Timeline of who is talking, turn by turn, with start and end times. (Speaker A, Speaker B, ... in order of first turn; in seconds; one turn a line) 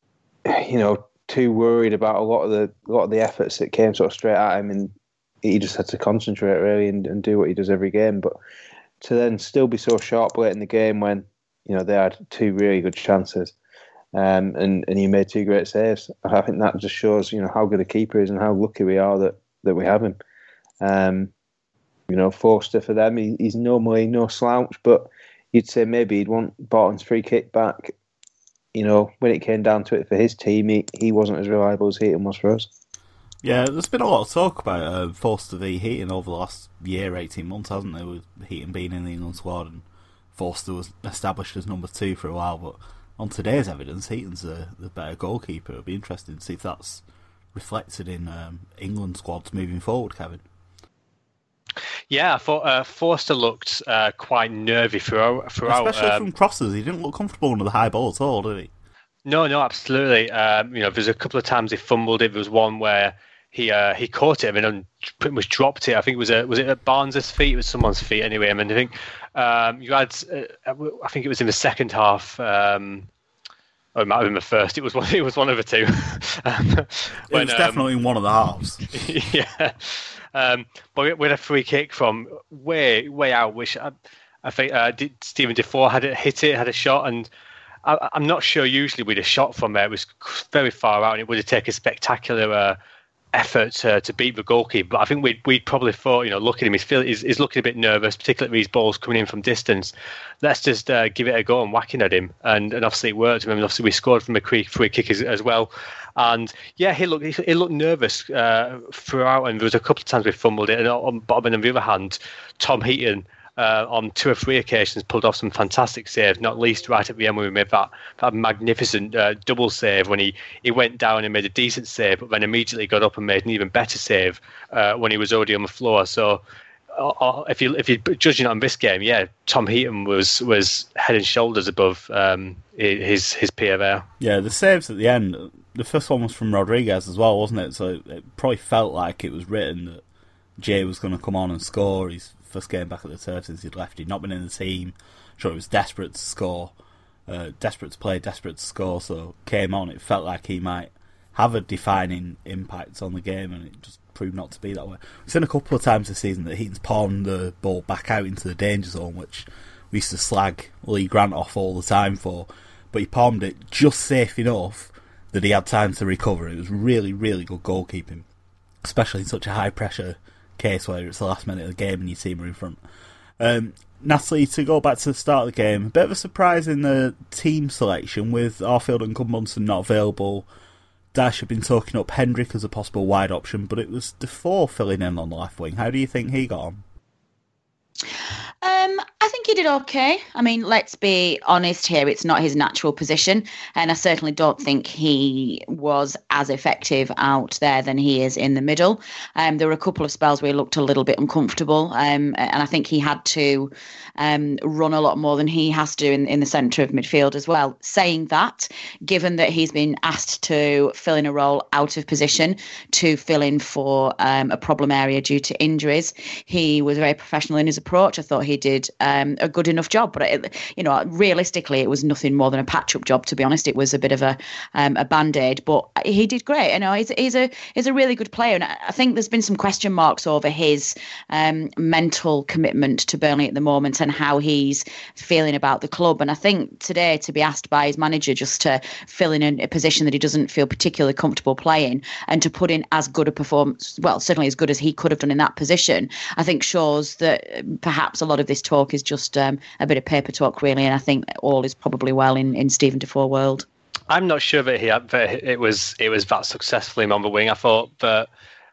Speaker A: 0.5-8.3
Speaker A: 9.0-13.5
Speaker A: 14.1-20.2
Speaker A: 20.8-21.3
Speaker A: 22.1-27.9
Speaker A: 28.7-32.7
Speaker B: 33.4-50.4
Speaker C: 52.1-56.2
Speaker B: 55.6-58.7
Speaker C: 59.2-73.1
Speaker C: 73.9-77.8
Speaker B: 77.3-79.1
Speaker C: 78.9-87.3
Speaker C: 87.8-92.8
Speaker C: 93.3-134.1
Speaker B: 134.2-140.0
Speaker B: 140.6-146.7
Speaker B: 147.3-168.2
Speaker B: 168.8-172.8
Speaker B: 173.4-180.5
Speaker B: 181.1-186.8
Speaker D: 188.6-253.7
Speaker C: 254.1-258.3